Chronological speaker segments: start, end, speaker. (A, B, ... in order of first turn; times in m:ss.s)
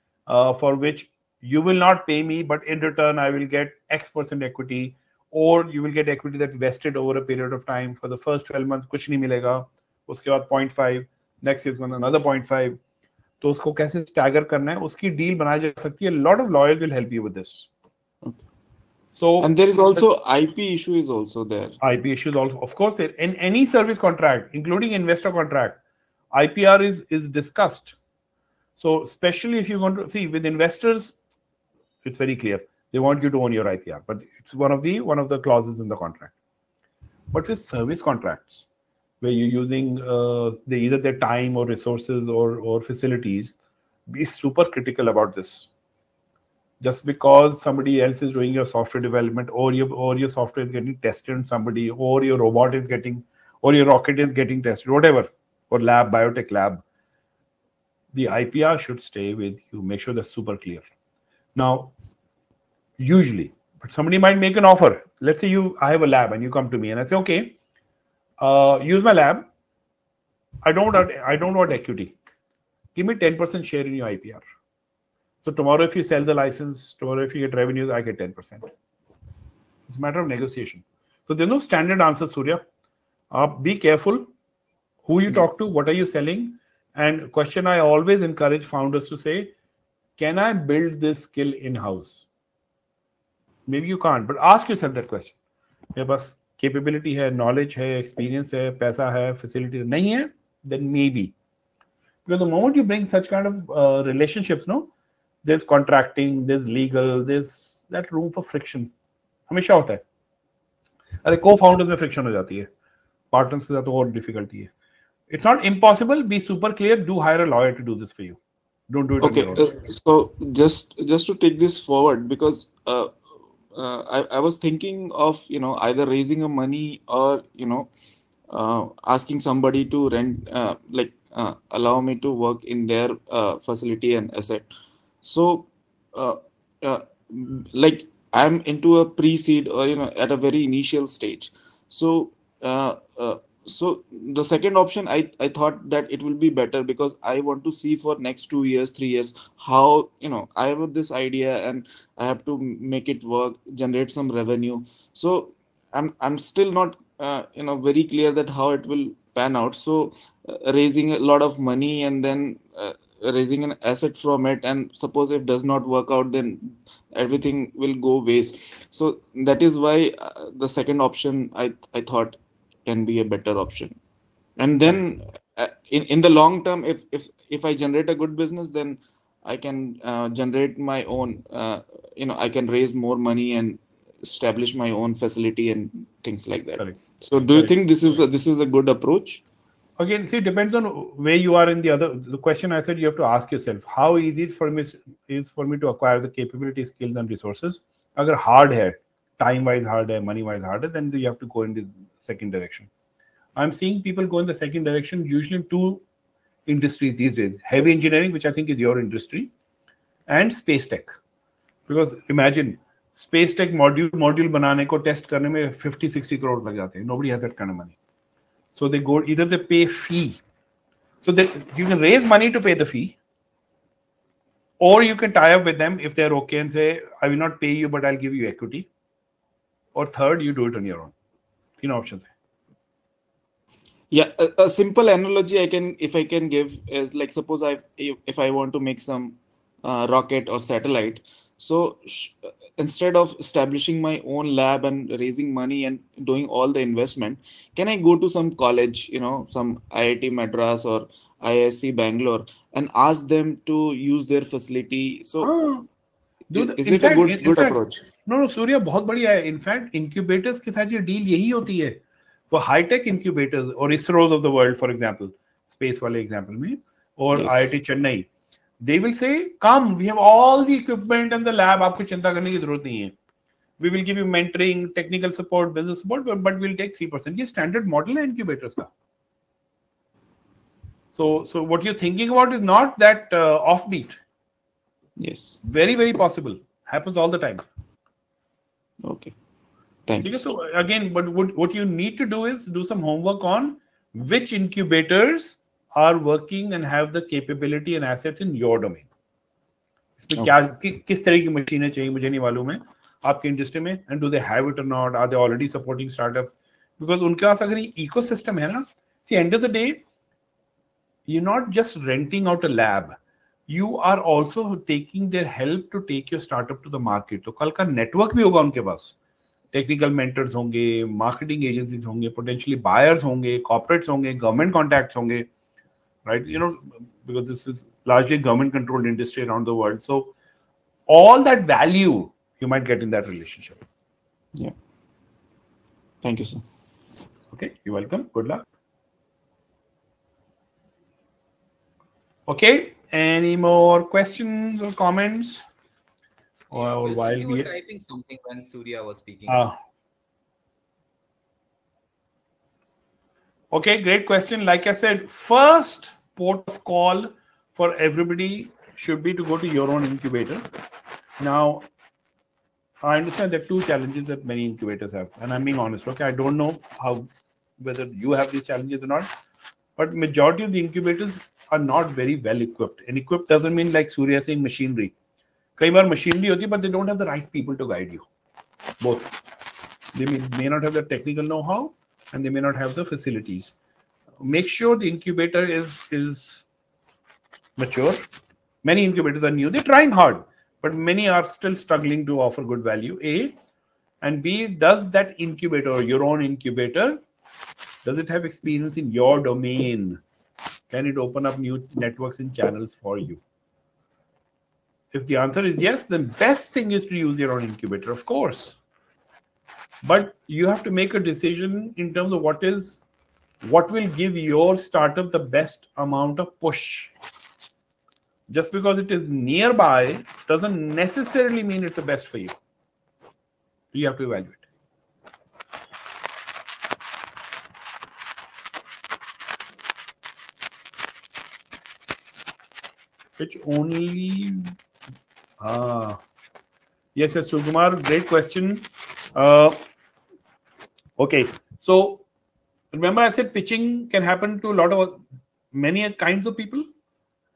0:00.3-0:12.8 A
0:13.4-0:17.7 A
0:19.1-0:20.0 A
0:19.4-0:21.8 B
0:21.8-0:25.8 A
0:26.3-0:28.0 A
0:28.8-0:31.2 A
0:32.0-0:36.3 A
0:37.3-0:38.6 A
0:39.2-0:43.5 A
0:44.1-0:45.7 A
0:46.8-0:56.8 A
0:58.1-1:00.8 A
1:01.5-1:01.9 A
1:03.0-1:07.6 A
1:08.4-1:09.4 A
1:10.6-1:12.1 A
1:12.9-1:14.4 A
1:15.4-1:18.7 A
1:19.9-1:22.6 A
1:23.3-1:24.3 A
1:25.1-1:29.5 A
1:30.2-1:32.3 A
1:33.7-1:35.3 A
1:35.9-1:41.3 A
1:42.2-1:44.9 A
1:45.4-1:48.9 A
1:49.5-1:50.0 A
1:51.2-1:52.7 A
1:53.3-1:54.7 A
1:55.3-1:58.4 A
1:58.9-1:59.7 A
1:59.2-2:03.2 B
2:03.7-2:07.9 B
2:08.5-2:14.7 B
2:15.2-2:54.0 B
2:54.6-3:09.4 B
3:10.0-3:22.9 A
3:23.6-3:26.0 A
3:26.6-3:29.5 A
3:30.3-3:31.1 A
3:31.9-3:38.0 A
3:38.7-3:40.4 A
3:41.2-3:43.2 A
3:44.8-3:48.9 A
3:49.9-3:51.1 A
3:51.8-3:52.3 A
3:54.1-4:15.5 B
4:15.4-4:15.9 A
4:16.5-4:22.0 A
4:16.5-4:18.0 B
4:22.5-4:28.3 A
4:27.3-4:27.7 B
4:28.8-4:33.1 A
4:33.8-4:38.9 A
4:41.1-4:44.2 A
4:45.2-4:45.6 B
4:45.6-4:47.6 A
4:49.0-4:49.3 B
4:50.1-4:50.5 B
4:50.2-4:59.1 A
5:00.2-5:10.0 A
5:11.3-5:13.2 A
5:13.7-5:19.1 A
5:19.7-5:25.5 A
5:26.2-5:30.3 A
5:31.1-5:33.8 A
5:36.2-5:36.6 B
5:37.5-5:38.6 A
5:42.5-5:45.6 A
5:46.7-5:47.7 A
5:46.7-5:49.6 C
5:49.5-5:49.7 A
5:53.7-6:00.6 A
6:01.4-6:01.8 A
6:03.0-6:07.3 A
6:07.8-6:09.3 A
6:10.0-6:15.1 A
6:15.8-6:18.3 A
6:19.0-6:19.3 A
6:20.1-6:23.7 A
6:24.4-6:26.6 A
6:27.8-6:28.2 A
6:28.8-6:33.5 A
6:34.2-6:37.2 A
6:38.0-6:40.2 A
6:40.9-6:43.4 A
6:45.1-6:48.8 A
6:50.0-6:53.0 A
6:53.6-6:57.1 A
6:58.5-7:02.6 A
7:03.9-7:04.6 A
7:13.4-7:14.7 A
7:15.6-7:16.2 A
7:17.1-7:19.8 A
7:21.2-7:22.2 A
7:22.9-7:26.8 A